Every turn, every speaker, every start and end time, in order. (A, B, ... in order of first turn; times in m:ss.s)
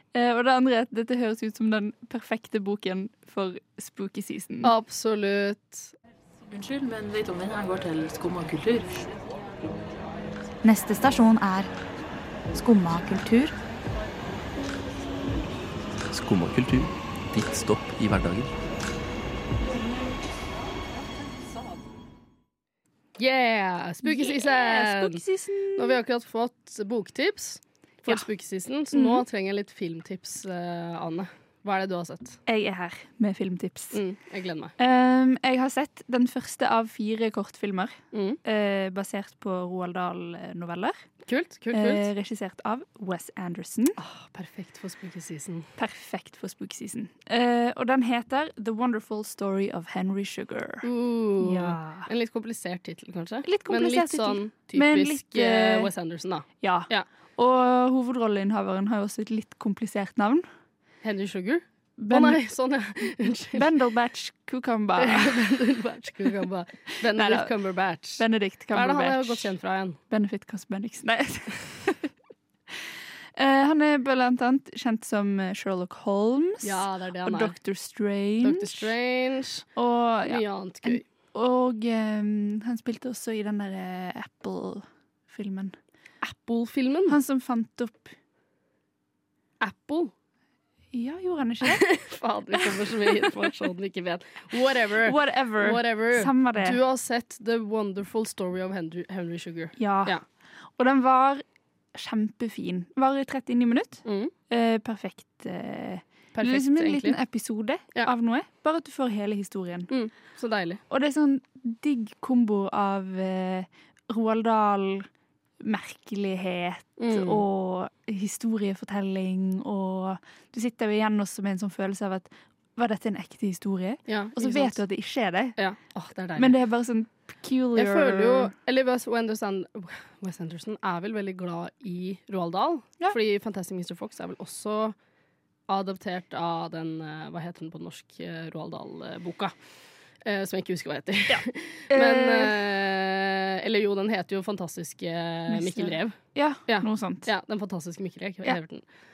0:00.1-0:04.7 A
0:04.6-0:05.9 B
0:06.5-0:09.2 C
0:10.6-0:11.7 D
0:12.5-0:13.5 D
0:16.1-0:18.5 E
0:23.2-0:25.2 B
0:24.0-0:26.0 A
0:25.8-0:32.4 B
0:28.9-0:29.2 A
0:32.5-0:34.0 A
0:33.9-0:34.7 B
0:34.8-0:41.0 A
0:38.1-0:38.4 B
0:41.3-0:42.0 B
0:41.7-0:44.0 A
0:44.0-0:45.7 B
0:45.8-0:50.9 A
0:50.8-0:57.0 B
0:51.4-0:52.1 A
0:53.4-0:55.9 A
0:56.6-1:00.4 A
1:01.0-1:03.6 B
1:02.0-1:02.4 A
1:03.5-1:05.4 A
1:05.0-1:10.0 B
1:07.1-1:07.5 A
1:08.2-1:09.5 A
1:10.1-1:12.1 A
1:13.4-1:18.9 A
1:16.6-1:17.6 B
1:18.4-1:19.6 B
1:19.7-1:25.8 A
1:20.3-1:21.0 B
1:26.2-1:27.2 B
1:27.1-1:28.1 A
1:29.6-1:30.1 B
1:30.9-1:31.9 A
1:31.6-1:40.2 B
1:35.0-1:36.8 A
1:39.8-1:40.2 A
1:40.8-1:41.4 A
1:41.9-1:49.9 A
1:44.0-1:44.3 B
1:46.4-1:47.2 B
1:49.9-1:50.8 B
1:50.9-1:55.1 A
1:55.6-2:05.6 A
1:57.0-1:57.4 B
2:04.1-2:04.8 B
2:05.6-2:06.6 B
2:06.4-2:08.5 A
2:07.8-2:14.9 B
2:15.7-2:19.5 B
2:20.2-2:26.2 B
2:21.3-2:22.6 A
2:25.5-2:27.3 A
2:26.7-2:28.8 B